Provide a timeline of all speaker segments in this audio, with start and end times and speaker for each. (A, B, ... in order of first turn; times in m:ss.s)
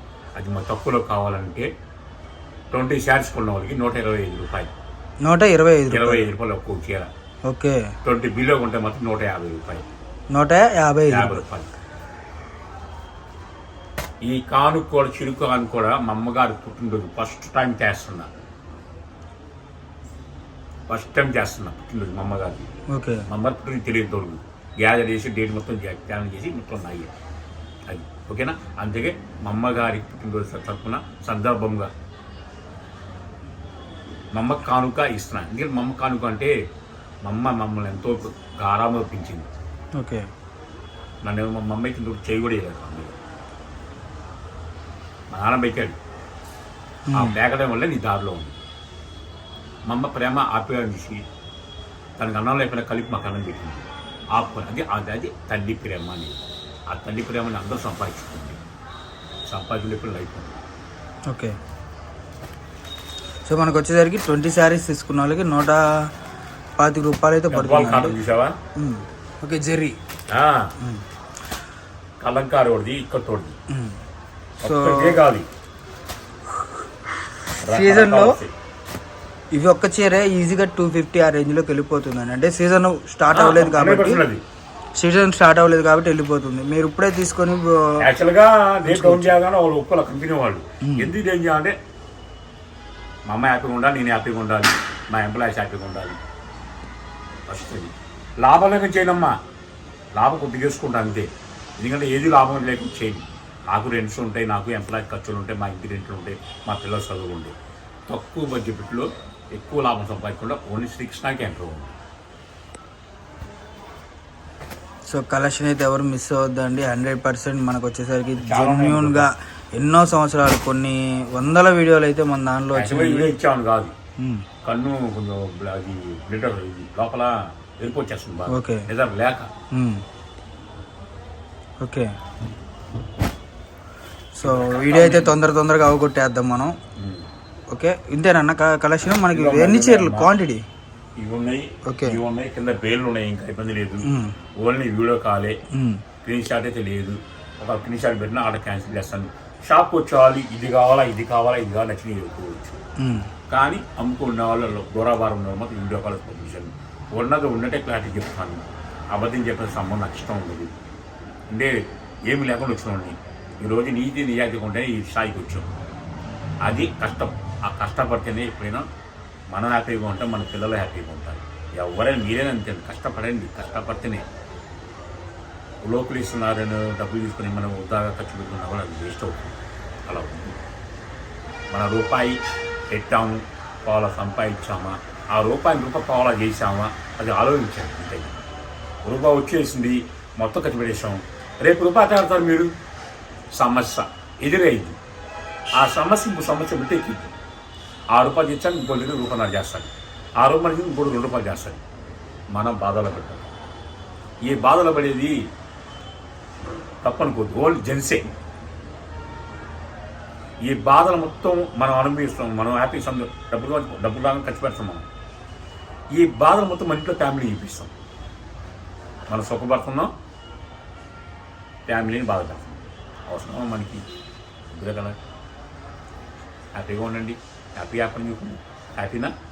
0:00.4-0:01.7 A
0:02.7-0:04.7 A
0:05.3-0:06.2 B
0:05.9-0:07.1 A
0:07.5-0:07.9 B
0:08.0-0:09.9 A
0:10.3-0:11.4 B
0:11.1-0:11.7 A
0:14.2-0:18.3 A
0:20.9-0:22.7 A
0:22.9-0:23.2 B
0:23.3-0:27.1 A
0:27.9-0:31.9 A
0:34.3-0:36.6 A
0:37.2-0:39.5 A
0:40.0-0:40.3 B
0:41.2-0:43.2 A
0:45.3-0:46.0 A
0:47.1-0:47.4 B
0:47.1-0:48.6 A
0:49.9-0:51.2 A
0:52.2-0:58.6 A
0:59.5-1:00.6 A
1:01.3-1:01.6 B
1:03.5-1:06.1 B
1:06.8-1:08.2 B
1:07.5-1:08.6 A
1:08.8-1:10.0 B
1:10.3-1:10.7 A
1:12.2-1:13.6 A
1:13.7-1:14.0 B
1:14.6-1:15.5 A
1:14.6-1:15.2 B
1:17.6-1:18.5 A
1:17.7-1:18.4 B
1:19.6-1:24.2 B
1:23.3-1:24.4 A
1:25.0-1:28.0 B
1:28.0-1:31.8 A
1:28.8-1:29.3 B
1:30.8-1:31.1 B
1:33.3-1:36.2 A
1:37.5-1:39.4 A
1:40.2-1:47.5 A
1:48.1-1:51.9 A
1:55.1-2:03.3 B
1:58.4-1:59.3 A
2:02.7-2:03.9 A
2:04.2-2:04.4 B
2:04.6-2:09.5 A
2:08.5-2:08.9 B
2:09.7-2:10.0 B
2:11.8-2:12.1 B
2:14.4-2:16.8 B
2:14.4-2:15.4 A
2:17.0-2:17.3 A
2:17.7-2:20.6 B
2:19.3-2:20.3 A
2:21.2-2:24.1 A
2:21.9-2:22.2 B
2:24.0-2:24.4 B
2:24.6-2:25.6 A
2:25.7-2:26.0 B
2:26.2-2:32.8 A
2:33.0-2:33.3 B
2:33.5-2:38.6 A
2:39.1-2:40.7 A
2:41.5-2:41.8 A
2:42.3-2:45.7 A
2:46.6-2:48.8 A
2:49.5-2:54.2 A
2:55.8-2:59.6 A
3:00.1-3:00.6 A
3:01.7-3:02.4 A
3:02.9-3:08.4 A
3:09.0-3:12.7 A
3:13.6-3:15.0 A
3:15.8-3:17.3 A
3:18.1-3:21.8 A
3:22.5-3:23.4 A
3:24.5-3:25.4 A
3:27.0-3:28.3 A
3:30.7-3:35.1 A
3:36.1-3:37.9 A
3:39.3-3:40.1 A
3:41.9-3:44.0 A
3:44.7-3:45.2 A
3:46.8-3:49.3 A